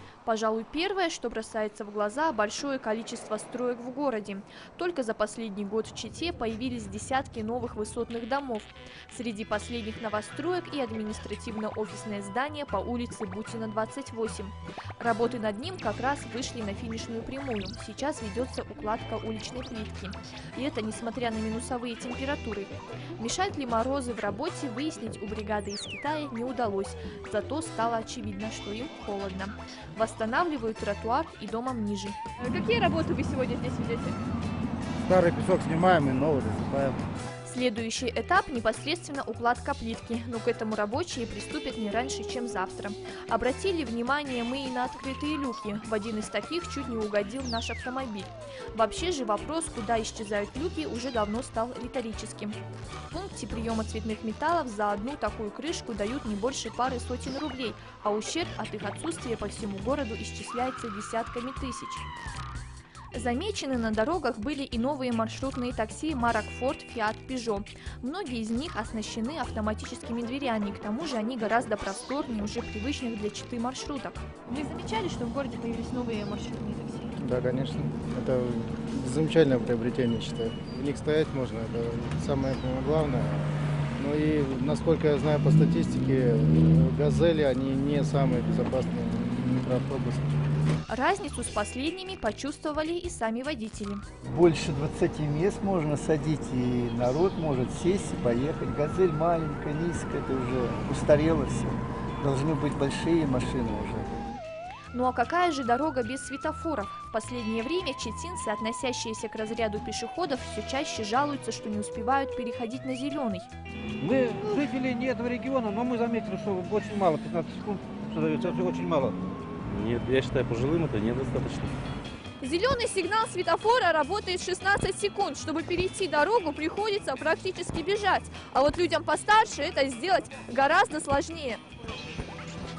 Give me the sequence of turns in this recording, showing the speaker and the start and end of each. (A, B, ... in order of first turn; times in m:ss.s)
0:00.2-0:34.2 A
0:35.0-0:37.0 B
0:37.4-1:02.1 A
1:03.1-1:17.1 A
1:17.2-1:30.4 B
1:30.9-1:34.0 A
1:34.2-1:44.1 C
1:44.9-1:53.5 A
1:54.0-1:59.2 D
1:59.7-2:01.8 E
2:02.4-2:11.6 A